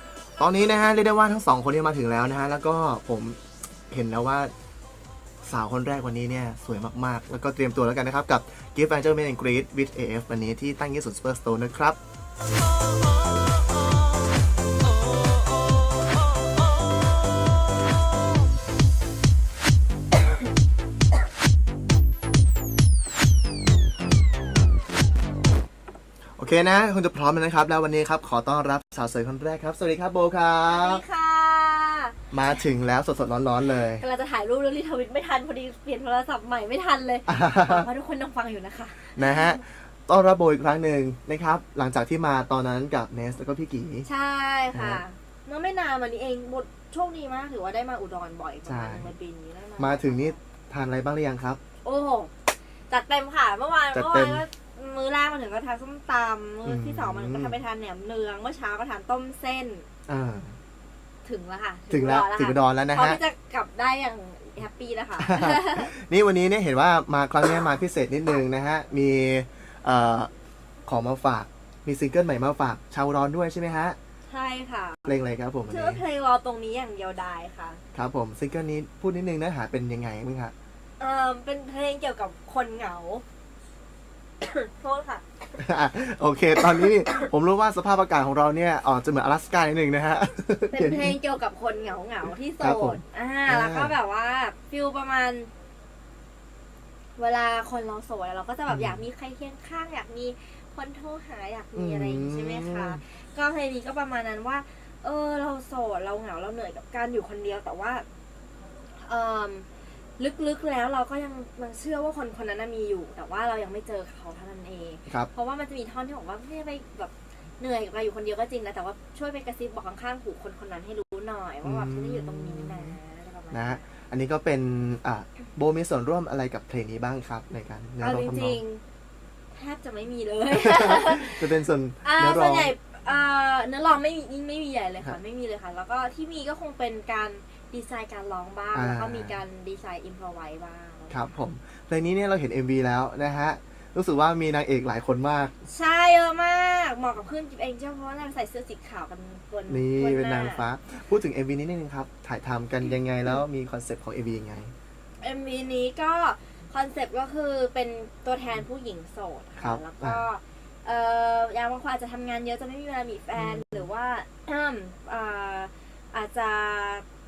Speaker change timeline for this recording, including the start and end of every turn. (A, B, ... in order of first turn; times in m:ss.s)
0:00.4-0:03.4 A
0:03.9-0:04.5 A
0:05.4-0:12.0 A
0:26.4-0:31.0 A
0:30.7-0:32.2 B
0:32.3-0:34.0 A
0:33.7-0:39.6 B
0:37.3-0:37.9 A
0:39.2-0:44.1 A
0:44.0-0:50.4 B
0:44.7-0:45.0 A
0:48.6-0:49.1 A
0:49.8-0:51.6 A
0:51.8-0:59.9 B
0:53.9-0:54.4 A
0:56.6-0:57.6 A
1:00.1-1:00.6 A
1:01.2-1:05.9 B
1:01.9-1:03.2 A
1:05.2-1:10.3 A
1:10.8-1:14.0 A
1:14.3-1:15.1 B
1:15.0-1:16.0 A
1:15.7-1:17.8 B
1:17.9-1:20.5 A
1:21.0-1:23.2 B
1:24.4-1:25.2 B
1:25.6-1:31.2 A
1:30.7-1:35.5 B
1:32.6-1:33.9 A
1:37.2-1:48.0 B
1:38.7-1:39.0 A
1:41.7-1:43.0 A
1:49.0-2:03.9 B
2:01.6-2:03.0 A
2:03.5-2:08.6 A
2:08.0-2:08.8 B
2:09.5-2:11.5 B
2:10.5-2:12.7 A
2:12.0-2:21.2 B
2:18.7-2:19.4 A
2:21.1-2:25.5 A
2:25.6-2:30.6 B
2:29.7-2:34.7 A
2:35.2-2:47.0 B
2:39.6-2:40.3 A
2:43.4-2:43.9 A